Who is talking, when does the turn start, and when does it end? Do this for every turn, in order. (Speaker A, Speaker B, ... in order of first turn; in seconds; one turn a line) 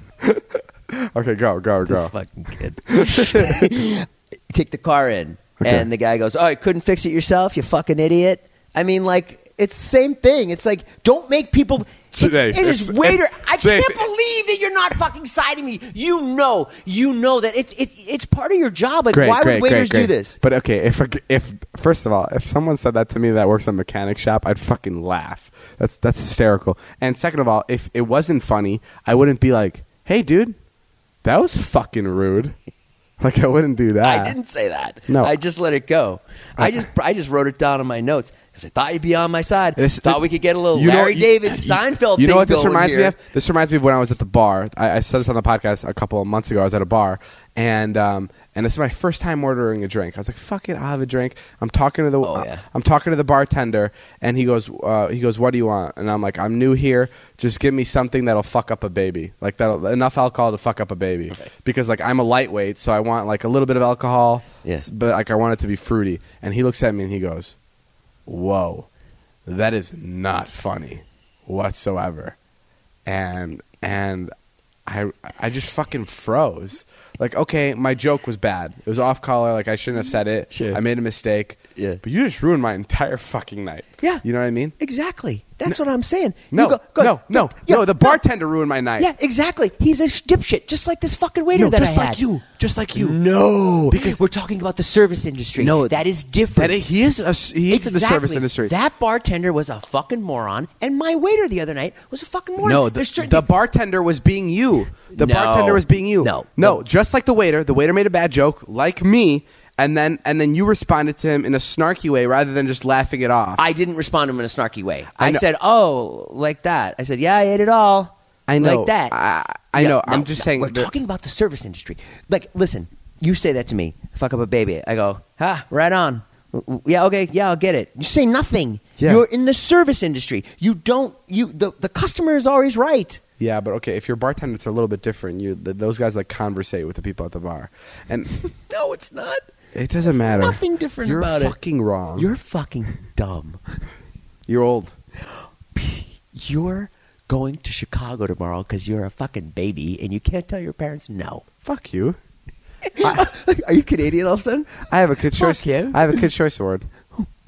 Speaker A: 0.2-2.1
Speaker B: 1.8-20.4
Speaker A: 2.9-3.7
Speaker A: 5.6-5.8
Speaker A: 12.1-14.0
Speaker A: 19.1-30.5
Speaker A: 31.2-32.5
Speaker A: 33.2-34.4
Speaker B: 34.0-43.1
Speaker A: 35.1-35.3
Speaker A: 36.6-36.8
Speaker A: 39.8-67.5
Speaker B: 52.2-52.6
Speaker A: 68.3-68.9
Speaker A: 69.5-72.3
Speaker A: 73.0-74.3
Speaker A: 74.9-84.7
Speaker B: 80.5-80.8
Speaker B: 81.7-82.0
Speaker B: 84.8-88.2
Speaker A: 86.5-89.1
Speaker B: 89.0-92.2
Speaker A: 91.5-93.2
Speaker B: 92.9-96.8
Speaker A: 93.9-94.2
Speaker A: 95.6-96.0
Speaker A: 96.5-98.7
Speaker B: 97.7-103.5
Speaker A: 102.6-113.6
Speaker B: 105.1-106.8
Speaker B: 113.5-119.1
Speaker A: 115.2-115.4
Speaker A: 118.5-120.9
Speaker B: 119.7-133.2
Speaker A: 129.0-129.2
Speaker A: 133.4-138.4
Speaker B: 138.4-139.4
Speaker A: 139.7-142.3
Speaker B: 140.0-141.5
Speaker B: 142.1-143.6
Speaker A: 144.5-144.9
Speaker B: 145.2-151.4
Speaker A: 151.6-152.2
Speaker B: 152.8-154.8
Speaker A: 153.0-153.3
Speaker A: 154.8-156.9
Speaker B: 155.3-156.2